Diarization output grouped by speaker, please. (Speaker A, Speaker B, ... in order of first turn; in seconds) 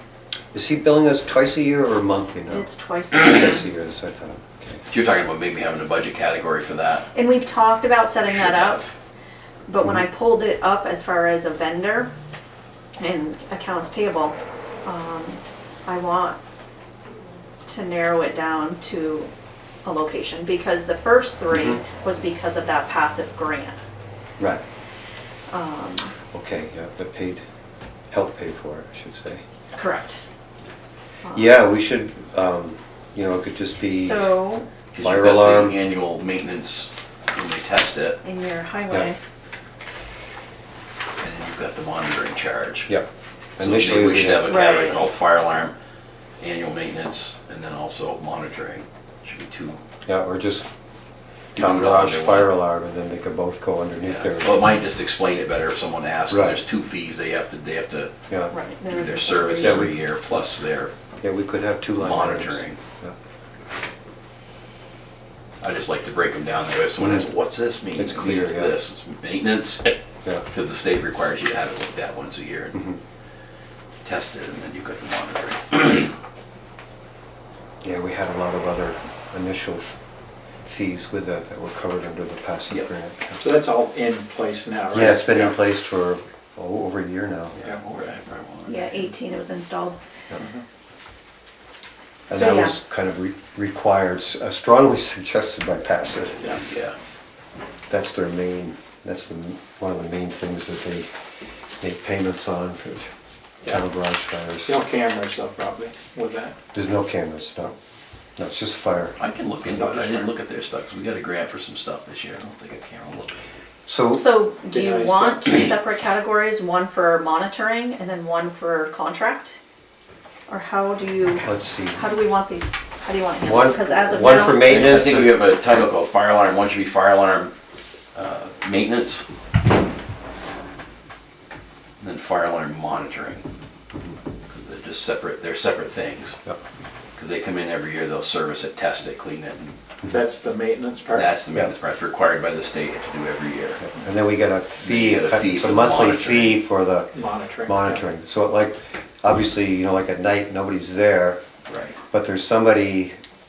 Speaker A: 0.5-4.8, 21.5-21.8, 26.3-27.4, 28.1-29.4, 31.3-34.3, 35.0-35.8, 42.9-44.7, 50.1-50.7, 51.6-54.7, 56.3-56.6, 59.6-60.0, 61.2-63.2, 68.0-68.8, 77.8-80.0, 80.7-83.4, 84.9-87.6, 92.3-96.5, 97.9-101.1, 101.8-103.1, 103.7-104.8, 106.7-107.8, 108.4-109.2, 113.9-114.2, 121.4-122.1, 123.4-125.4, 143.8-151.4, 152.1-153.2
Speaker B: 2.5-3.6, 7.1-8.8, 9.7-12.1, 13.0-16.4, 17.7-19.3, 19.8-23.8, 25.5-26.1, 29.8-30.2, 31.2-31.5, 34.0-34.7, 38.2-39.2, 44.5-45.1, 58.5-59.8, 88.7-90.0, 92.3-92.8, 114.1-119.6, 120.5-124.9
Speaker C: 4.9-7.1, 8.2-8.9, 34.9-38.2, 41.2-42.9, 43.6-45.7, 46.4-49.8, 51.5-52.5, 54.0-58.1, 58.9-60.9, 62.0-62.8, 65.6-70.0, 70.5-72.8, 74.0-76.1, 87.5-89.0, 96.6-97.0, 109.2-113.4, 124.2-127.5, 128.2-129.2, 132.0-133.4, 134.5-136.4, 137.2-139.8, 141.1-143.8, 144.8-146.6, 151.7-152.0
Speaker D: 83.4-85.5, 90.4-90.6, 104.7-106.6, 109.7-110.3, 114.7-115.6, 140.1-141.3, 147.1-148.0